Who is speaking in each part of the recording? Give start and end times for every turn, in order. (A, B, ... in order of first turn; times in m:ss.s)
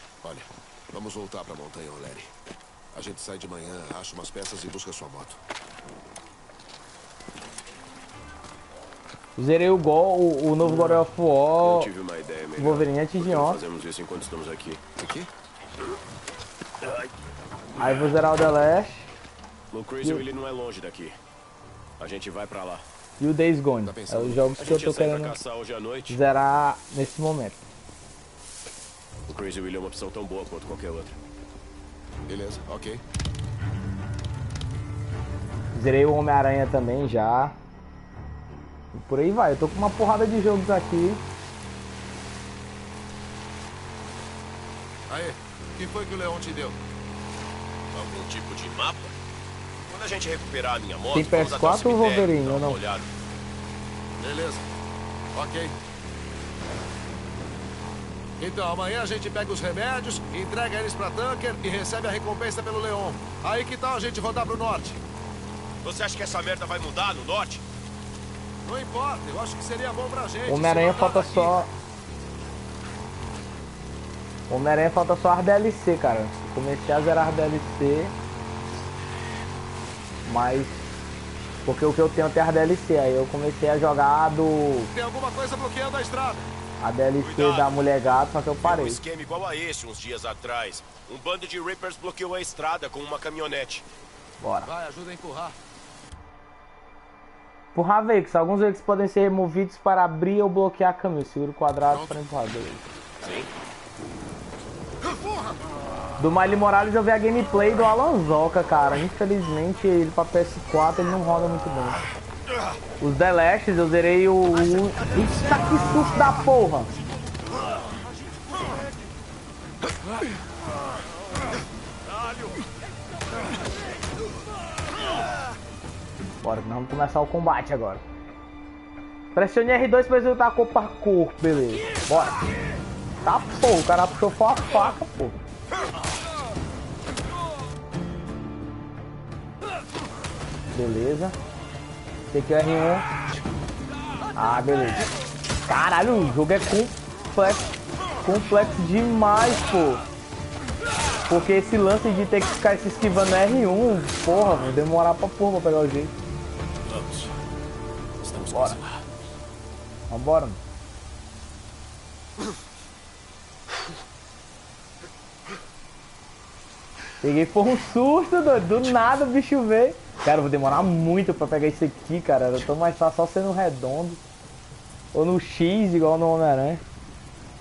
0:00.2-0:02.3 A
0:02.9-0:05.4 A
0:09.4-0:11.9 B
0:10.6-0:14.8 C
0:12.5-0:13.6 B
0:15.0-0:15.3 A
0:17.8-0:19.1 B
0:19.7-0:21.2 C
0:22.0-0:22.8 C
0:23.2-0:25.4 B
0:23.8-0:24.5 A
0:24.5-0:26.2 C
0:26.1-0:27.6 B
0:29.2-0:31.2 C
0:32.3-0:33.0 A
0:35.7-0:37.6 B
0:38.9-0:41.2 B
0:45.1-0:46.8 A
0:47.9-0:49.2 C
0:49.9-0:53.1 C
0:51.1-0:52.8 B
0:54.2-0:54.6 A
0:55.3-0:55.7 A
0:58.4-1:05.0 A
1:05.8-1:07.6 C
1:08.6-1:11.6 A
1:10.4-1:11.7 B
1:14.5-1:18.1 B
1:20.2-1:20.8 B
1:21.6-1:24.9 B
1:24.9-1:26.4 A
1:26.8-1:29.0 B
1:27.2-1:27.8 C
1:28.6-1:33.8 C
1:34.4-1:34.7 B
1:34.6-1:35.6 A
1:37.7-1:42.9 B
1:43.2-1:43.5 C
1:46.2-1:52.0 B
1:53.0-1:56.9 B
2:06.4-2:08.0 B
2:09.3-2:12.4 B
2:13.2-2:15.4 B
2:20.7-2:21.4 B
2:22.3-2:23.1 B
2:24.3-2:25.1 B
2:25.6-2:27.7 B
2:28.2-2:30.0 B
2:31.3-2:36.1 B
2:36.8-2:37.4 C
2:38.2-2:39.0 C
2:38.5-2:38.8 B
2:40.1-2:40.6 B
2:47.2-2:54.2 B
2:55.1-2:56.8 B